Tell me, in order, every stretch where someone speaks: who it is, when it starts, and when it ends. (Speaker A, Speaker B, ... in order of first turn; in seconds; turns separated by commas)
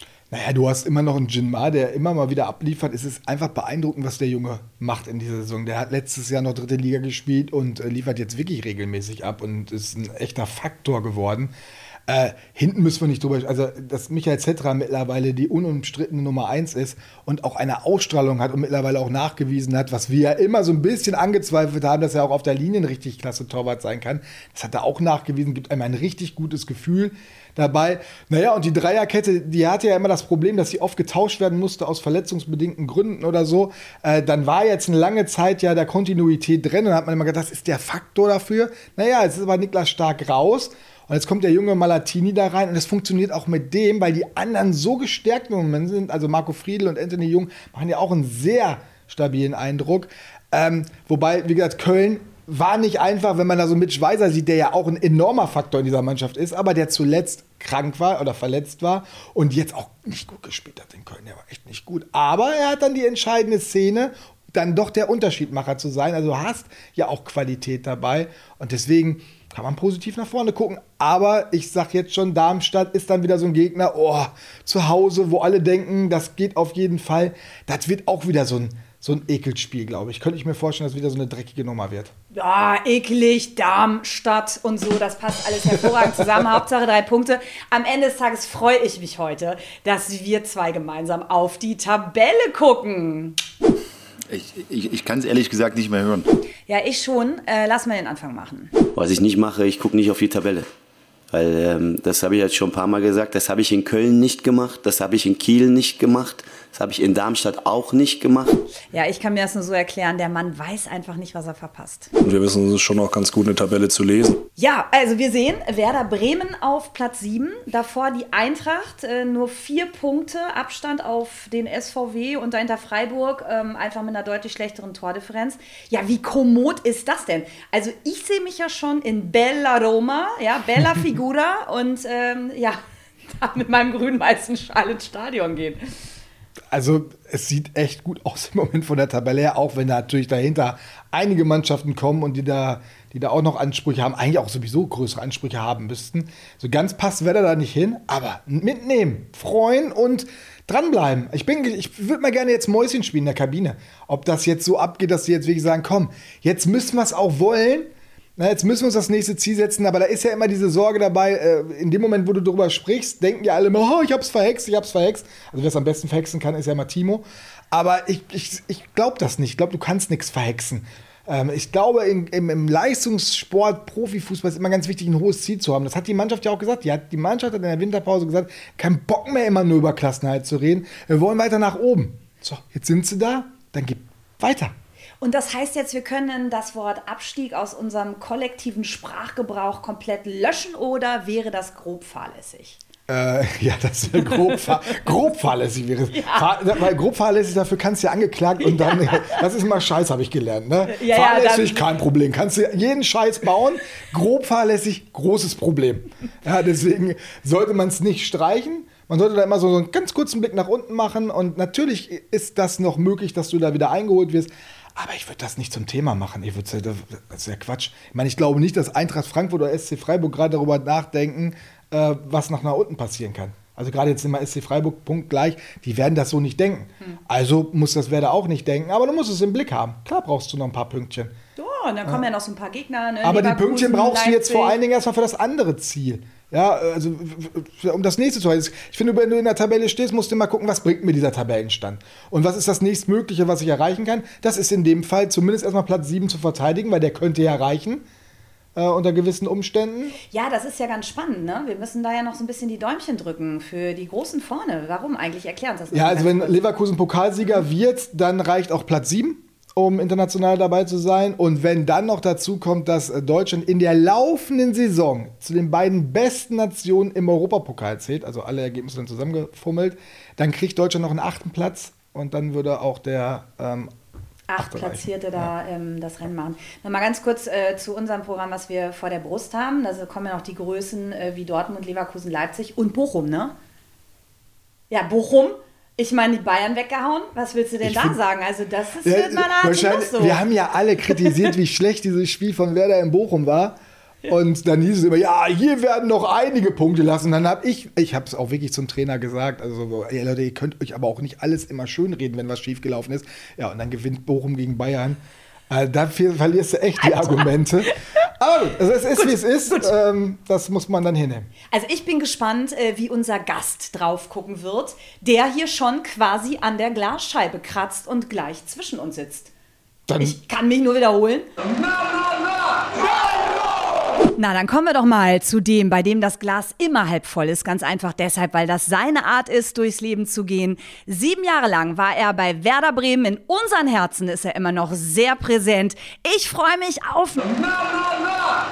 Speaker A: 0.3-11.5, Speaker A: 12.1-82.1, Speaker B: 82.3-93.3, Speaker A: 85.7-86.6, Speaker C: 94.3-96.3, Speaker B: 96.7-98.7, Speaker D: 98.9-100.7, Speaker D: 101.3-108.6, Speaker B: 108.9-112.1, Speaker E: 112.2-114.4, Speaker B: 114.6-132.8, Speaker B: 133.3-135.8, Speaker A: 136.7-184.7, Speaker B: 185.2-192.8, Speaker A: 193.1-231.3, Speaker B: 196.1-196.5, Speaker B: 198.6-199.4, Speaker B: 200.9-201.8, Speaker B: 231.6-234.8, Speaker A: 233.2-248.0, Speaker A: 248.7-250.2, Speaker B: 250.3-256.6, Speaker A: 255.9-273.9, Speaker B: 274.5-283.5, Speaker A: 274.6-275.5, Speaker B: 284.9-290.4, Speaker A: 287.8-288.2, Speaker A: 289.0-293.8, Speaker B: 291.1-291.3, Speaker A: 294.3-305.2, Speaker A: 305.7-311.5, Speaker B: 307.0-307.5, Speaker B: 309.2-309.9, Speaker B: 311.7-319.5, Speaker A: 320.1-320.4, Speaker B: 320.2-321.5, Speaker B: 324.4-337.6